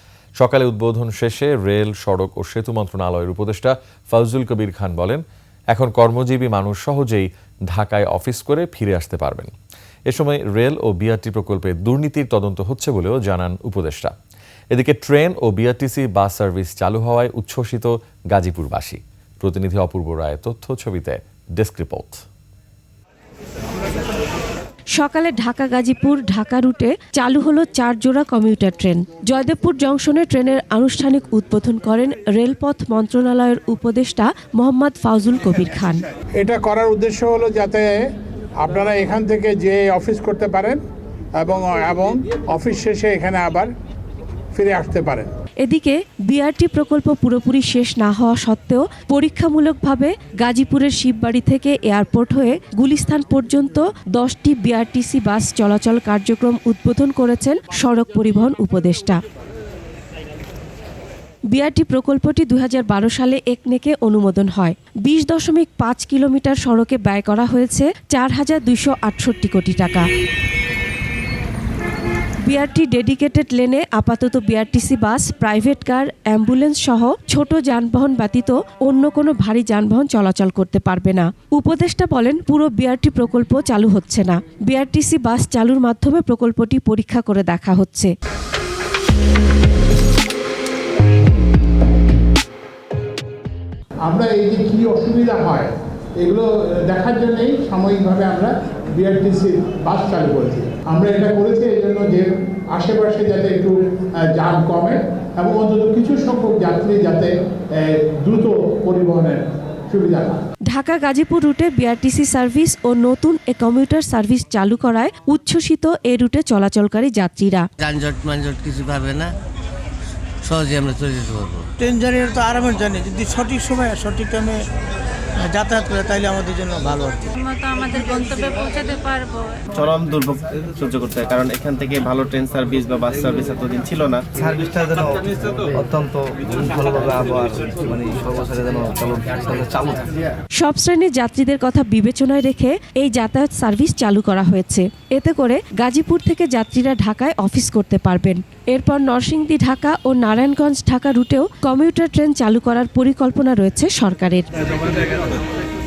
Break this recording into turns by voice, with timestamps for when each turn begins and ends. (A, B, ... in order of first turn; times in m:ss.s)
0:00.4-0:09.5 A
0:10.1-0:14.1 A
0:14.7-0:22.2 A
0:25.0-0:36.0 B
0:36.4-0:38.0 C
0:38.6-0:40.8 C
0:41.4-0:43.7 C
0:44.5-0:45.3 C
0:45.6-0:59.2 B
1:01.5-1:10.1 B
1:12.5-1:28.1 B
1:34.0-1:43.8 C
1:44.3-1:50.4 C
1:50.7-1:57.7 B
1:57.8-1:59.3 D
2:00.4-2:01.6 D
2:01.8-2:04.6 E
2:05.4-2:07.3 E
2:07.4-2:09.5 F
2:09.7-2:14.2 G
2:14.3-2:20.1 H
2:20.6-2:34.5 B